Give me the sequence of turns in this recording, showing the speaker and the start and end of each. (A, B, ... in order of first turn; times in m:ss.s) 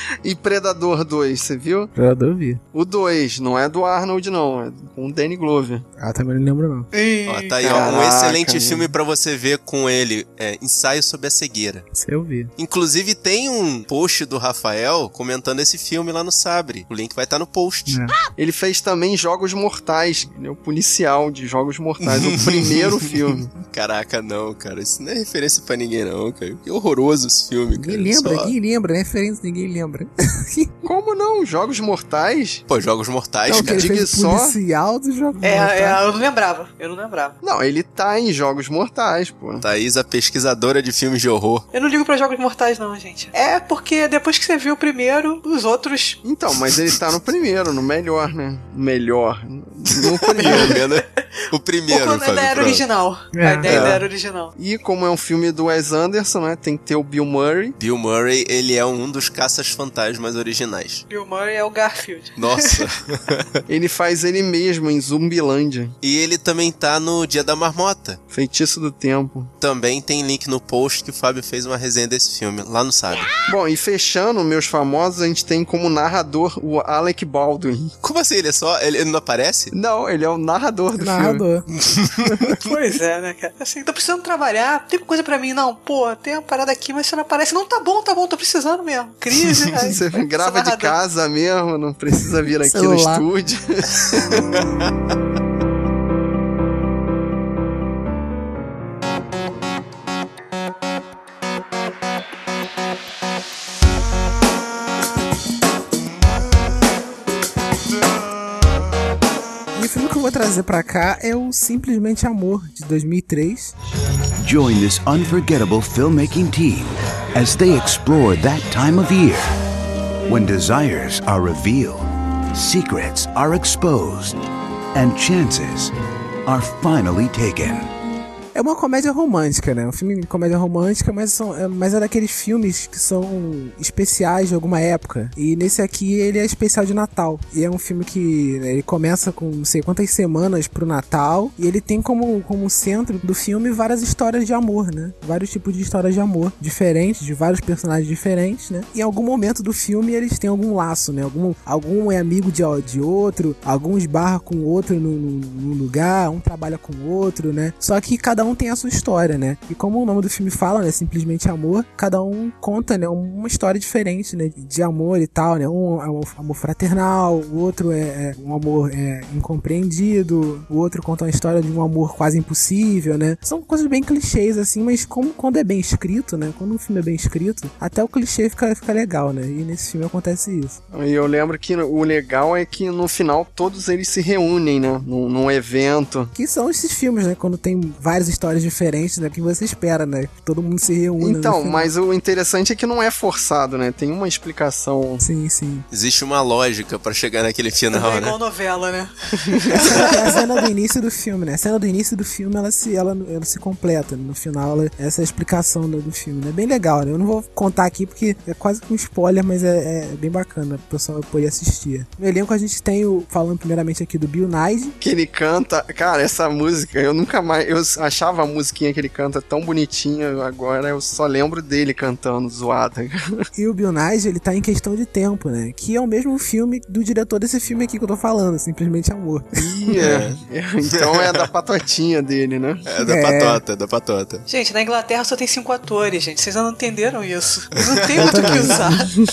0:00.2-0:01.9 A
0:02.0-0:02.6 B
0:02.7-0:05.9 A
0:06.0-0:06.9 B
0:06.9-0:07.8 C
0:07.3-0:11.9 D
0:07.6-0:08.9 A
0:11.9-0:12.5 B
0:12.6-0:18.0 D
0:17.9-0:18.1 B
0:18.4-0:23.5 A
0:22.0-0:28.5 D
0:27.8-0:30.7 B
0:30.8-0:32.6 A
0:32.7-0:33.9 D
0:33.5-0:36.0 B
0:33.5-0:34.6 A
0:35.4-0:37.4 C
0:37.4-0:39.6 A
0:39.6-0:41.7 D
0:41.7-0:46.2 C
0:46.2-0:50.8 A
0:50.3-0:52.8 D
0:50.4-0:50.8 C
0:51.9-0:54.5 C
0:53.3-0:53.9 B
0:53.7-0:54.0 D
0:54.6-0:57.8 A
0:57.8-1:01.0 D
1:01.1-1:02.8 C
1:02.4-1:03.5 D
1:03.7-1:06.0 A
1:06.0-1:08.2 D
1:08.3-1:09.5 A
1:09.6-1:13.3 D
1:13.5-1:17.9 A
1:18.0-1:19.7 D
1:19.7-1:21.4 A
1:21.0-1:21.7 B
1:21.9-1:22.2 D
1:22.6-1:31.0 C
1:29.8-1:34.4 A
1:32.6-1:33.2 B
1:49.8-1:53.7 B
1:54.4-1:59.5 E
2:00.3-2:04.4 E
2:05.0-2:05.9 E
2:06.5-2:07.9 E
2:08.5-3:00.8 B
3:00.9-3:06.3 A
3:06.4-3:11.9 B
3:11.2-3:15.2 A
3:15.2-3:15.9 B
3:15.9-3:18.4 D
3:17.9-3:20.3 C
3:19.8-3:35.0 B
3:35.0-3:43.5 A
3:43.6-3:49.9 B
3:49.6-3:52.8 A
3:50.0-3:50.4 D
3:51.0-3:51.5 D
3:52.9-3:54.5 D
3:53.0-3:53.6 B
3:54.5-3:59.1 C
3:58.1-3:58.9 B
3:58.2-3:58.7 D